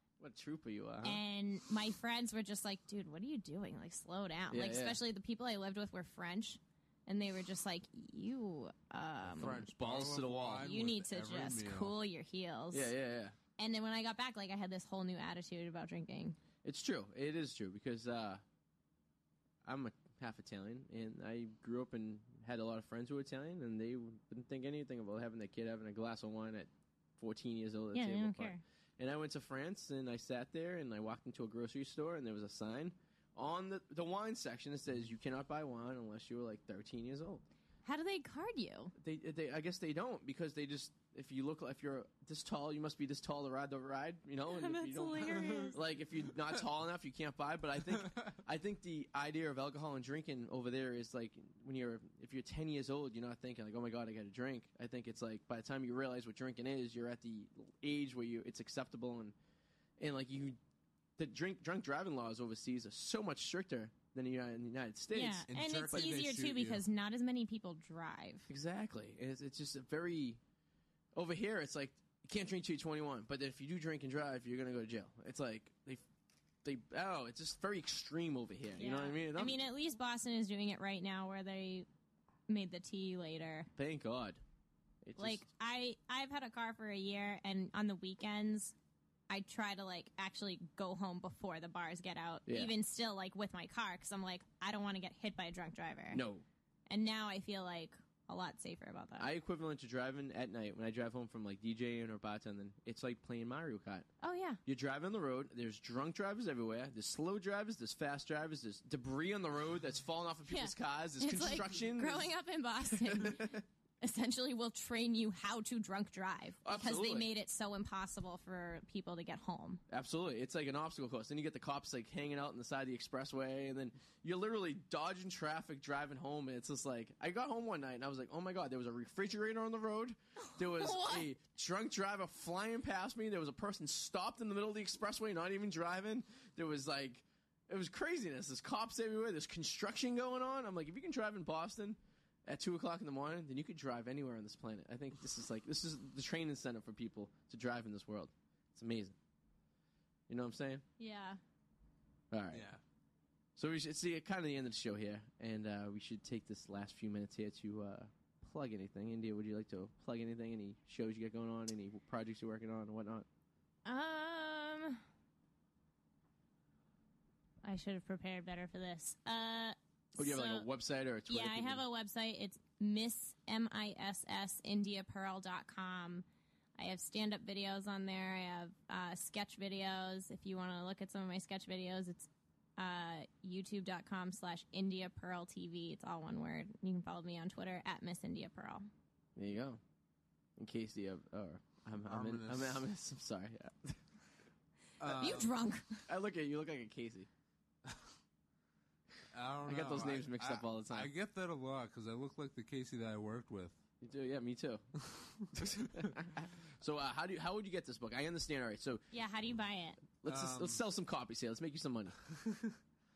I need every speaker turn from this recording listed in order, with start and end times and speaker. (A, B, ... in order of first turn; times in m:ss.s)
0:00.2-0:01.2 A
0:01.0-0:09.7 B
0:04.5-0:05.0 A
0:09.3-0:12.0 C
0:09.7-0:10.6 A
0:10.6-0:12.9 B
0:12.7-0:13.4 A
0:13.6-0:16.4 B
0:16.6-0:18.4 A
0:19.6-0:37.4 A
0:27.9-0:28.6 B
0:37.8-0:38.9 B
0:39.0-0:59.4 A
0:44.5-0:45.8 B
0:48.0-0:48.2 C
1:00.0-1:00.6 A
1:01.2-1:06.1 A
1:05.1-1:08.5 B
1:05.5-1:06.8 C
1:08.5-1:10.4 A
1:11.2-1:16.0 A
1:16.6-1:19.6 A
1:18.8-1:21.9 B
1:22.5-1:23.7 B
1:23.8-1:24.4 A
1:25.0-1:25.4 A
1:25.2-1:28.7 B
1:29.3-1:36.2 B
1:32.5-1:32.7 A
1:36.1-1:36.4 A
1:36.9-1:39.3 B
1:39.2-1:44.1 A
1:44.2-1:44.6 B
1:44.7-1:52.3 A
1:50.5-1:59.8 B
1:53.1-1:53.6 A
1:56.6-1:57.3 A
1:59.9-2:29.2 A
2:10.4-2:11.3 B
2:30.3-2:30.8 A
2:31.0-2:31.4 B
2:32.3-2:32.7 A
2:32.5-2:32.8 C
2:33.6-2:43.3 A
2:43.8-2:45.0 B
2:47.6-2:50.7 B
2:50.2-2:51.8 A
2:51.3-2:56.2 B
2:56.8-3:08.9 B
3:09.4-3:09.8 A
3:10.6-3:14.0 A
3:12.0-3:12.8 C
3:15.0-3:15.5 C
3:15.0-3:16.1 B
3:16.1-3:17.3 A
3:19.3-3:23.8 C
3:19.7-3:21.1 A
3:24.0-3:24.8 A
3:25.5-3:29.0 A
3:29.1-3:30.1 B
3:30.2-3:32.2 A
3:30.2-3:30.8 C
3:32.3-3:32.8 C